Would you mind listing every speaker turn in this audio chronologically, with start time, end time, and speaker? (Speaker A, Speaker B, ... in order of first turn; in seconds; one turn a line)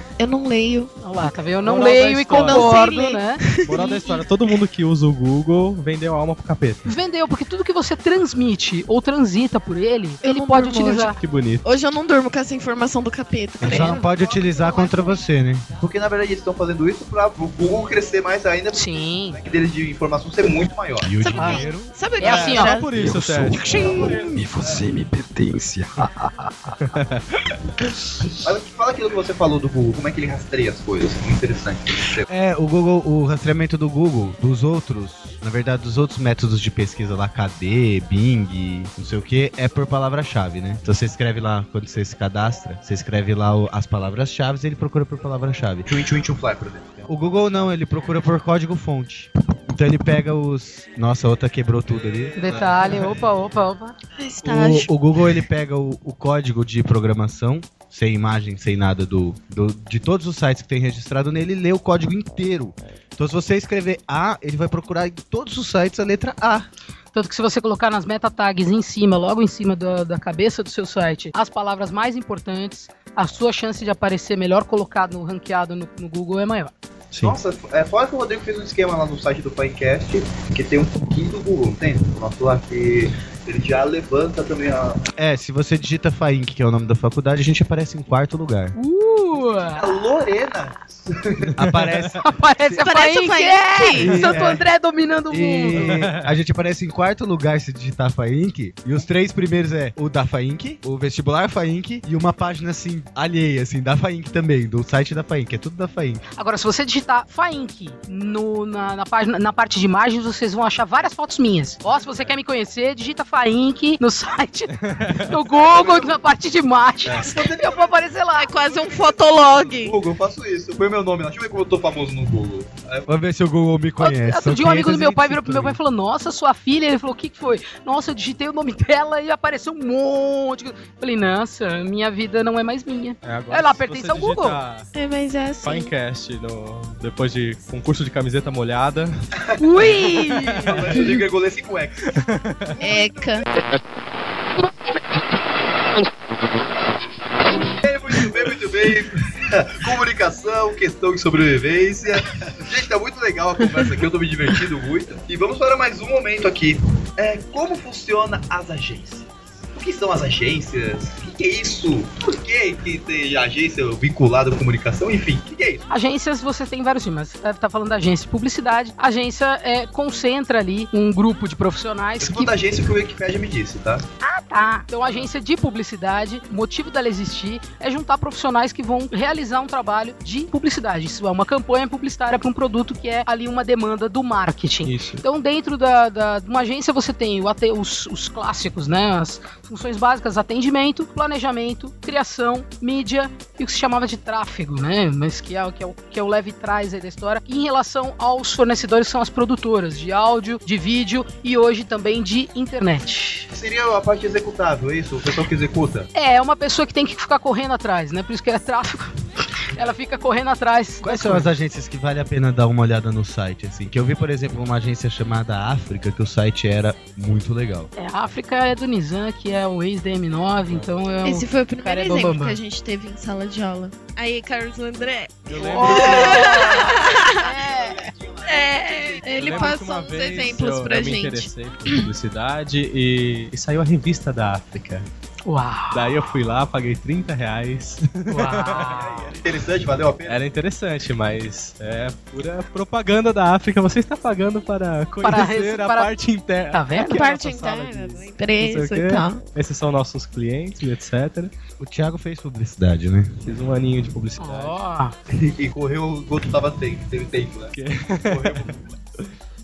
Speaker A: 0.2-0.9
Speaker B: 1.0-4.2
Speaker C: 1.6-2.8
Speaker A: 2.3-3.9
Speaker C: 3.6-6.8
Speaker B: 6.8-11.2
Speaker A: 10.2-15.1
Speaker C: 11.2-11.6
Speaker D: 13.6-15.7
Speaker E: 14.1-14.5
Speaker E: 15.8-21.1
Speaker B: 18.7-19.4
Speaker D: 21.0-21.9
Speaker A: 21.2-23.1
Speaker B: 21.4-21.7
Speaker B: 22.2-22.8
Speaker C: 22.2-24.4
Speaker F: 23.0-25.9
Speaker E: 23.7-24.8
Speaker C: 26.8-27.2
Speaker E: 28.4-32.3
Speaker D: 32.3-45.9
Speaker E: 45.9-47.7
Speaker D: 47.1-52.7
Speaker B: 52.4-54.0
Speaker C: 52.7-53.1
Speaker A: 54.2-54.9
Speaker D: 54.4-66.7
Speaker B: 67.1-76.7
Speaker C: 77.1-77.4
Speaker E: 77.2-85.0
Speaker D: 85.2-88.8
Speaker B: 88.7-90.0
Speaker E: 89.7-91.5
Speaker D: 91.6-92.8
Speaker B: 92.2-95.9
Speaker A: 92.8-94.3
Speaker D: 93.9-94.7
Speaker D: 95.3-106.2
Speaker C: 95.7-96.3
Speaker B: 106.4-118.7
Speaker C: 114.8-115.3
Speaker E: 115.6-116.2
Speaker E: 117.0-123.1
Speaker A: 118.3-120.0
Speaker D: 123.1-125.8
Speaker B: 124.0-134.6
Speaker C: 133.2-134.9
Speaker A: 134.9-135.9
Speaker C: 135.6-139.2
Speaker B: 139.6-141.1
Speaker C: 139.8-141.0
Speaker E: 140.7-142.2
Speaker C: 142.1-142.8
Speaker E: 142.8-143.4
Speaker A: 142.8-143.4
Speaker E: 147.8-165.8
Speaker B: 165.9-172.5
Speaker E: 172.2-174.1
Speaker B: 174.2-203.5
Speaker C: 184.8-185.2
Speaker E: 203.5-206.1
Speaker B: 206.1-209.1
Speaker B: 209.7-211.5
Speaker D: 211.0-217.9
Speaker B: 217.9-222.6
Speaker A: 221.2-227.5
Speaker C: 225.5-226.8
Speaker B: 225.6-228.1
Speaker E: 227.2-229.8
Speaker A: 228.4-232.0
Speaker C: 229.3-235.1
Speaker B: 235.5-236.3
Speaker C: 235.9-239.0
Speaker B: 238.3-239.3
Speaker E: 238.8-240.4
Speaker C: 240.3-251.5
Speaker B: 245.2-246.1
Speaker B: 246.7-247.3
Speaker A: 247.0-249.4
Speaker D: 251.8-253.3
Speaker C: 253.4-254.8
Speaker B: 254.4-255.1
Speaker E: 255.3-258.9
Speaker C: 257.7-259.3